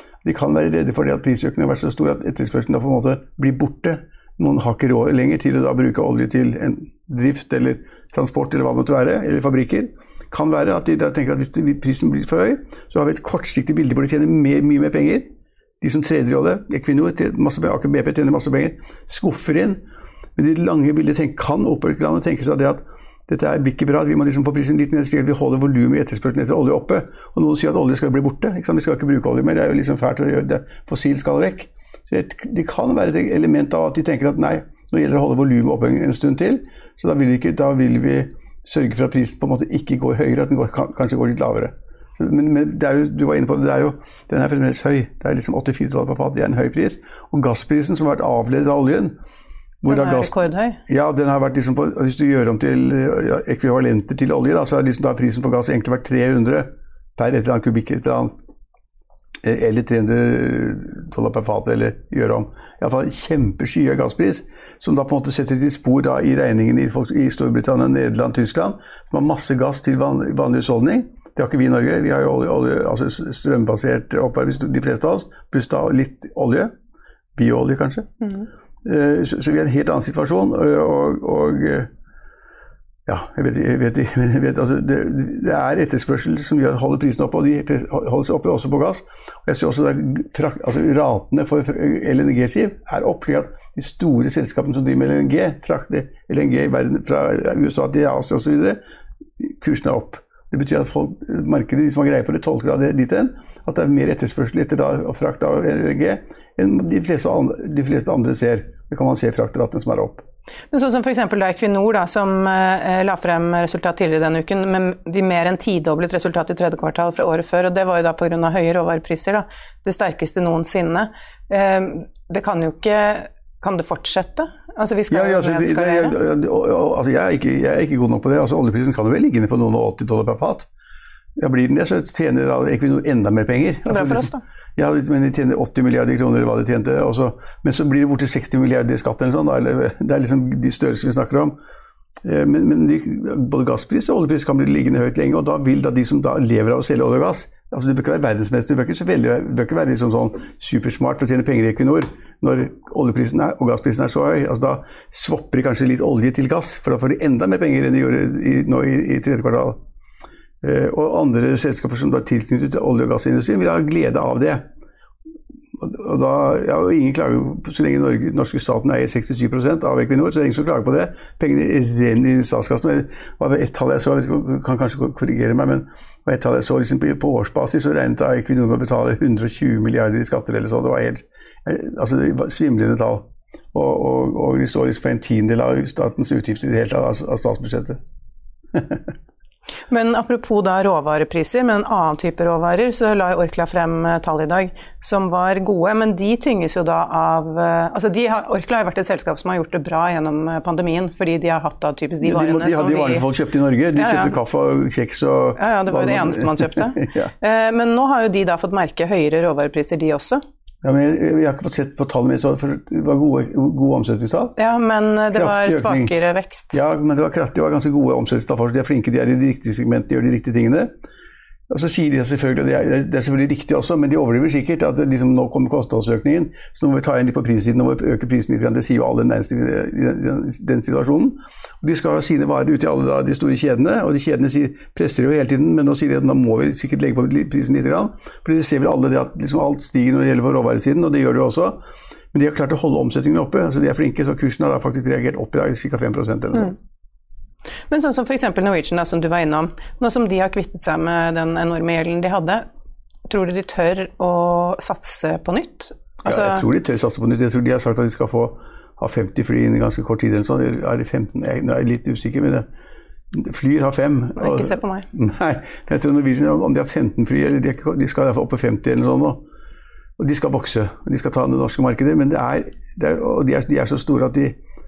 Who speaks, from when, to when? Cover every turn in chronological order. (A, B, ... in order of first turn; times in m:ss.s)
0:00.2-0:15.3 A
0:15.8-0:19.8 A
0:20.4-0:49.2 A
0:49.8-0:50.3 A
0:49.9-0:50.8 B
0:50.9-0:58.3 A
0:59.4-1:16.7 A
1:17.4-1:18.1 A
1:18.8-1:21.9 A
1:23.0-1:38.8 A
1:39.4-1:50.2 A
1:50.7-2:06.1 B
2:05.1-2:10.7 A
2:11.4-2:21.6 A
2:13.9-2:14.4 B
2:22.2-2:39.8 A
2:40.6-2:44.7 A
2:45.8-3:08.0 A
3:08.7-3:09.1 A
3:09.9-3:23.2 B
3:22.2-3:27.3 A
3:24.0-3:24.4 B
3:25.6-3:30.4 B
3:30.8-3:34.5 A
3:34.6-3:36.7 B
3:35.3-3:36.1 A
3:36.7-3:40.9 A
3:41.7-4:01.8 A
4:02.3-4:06.7 A
4:07.9-4:12.6 B
4:13.3-4:16.6 B
4:16.2-4:22.7 A
4:23.3-4:29.4 A
4:24.4-4:25.1 B
4:30.2-4:34.6 A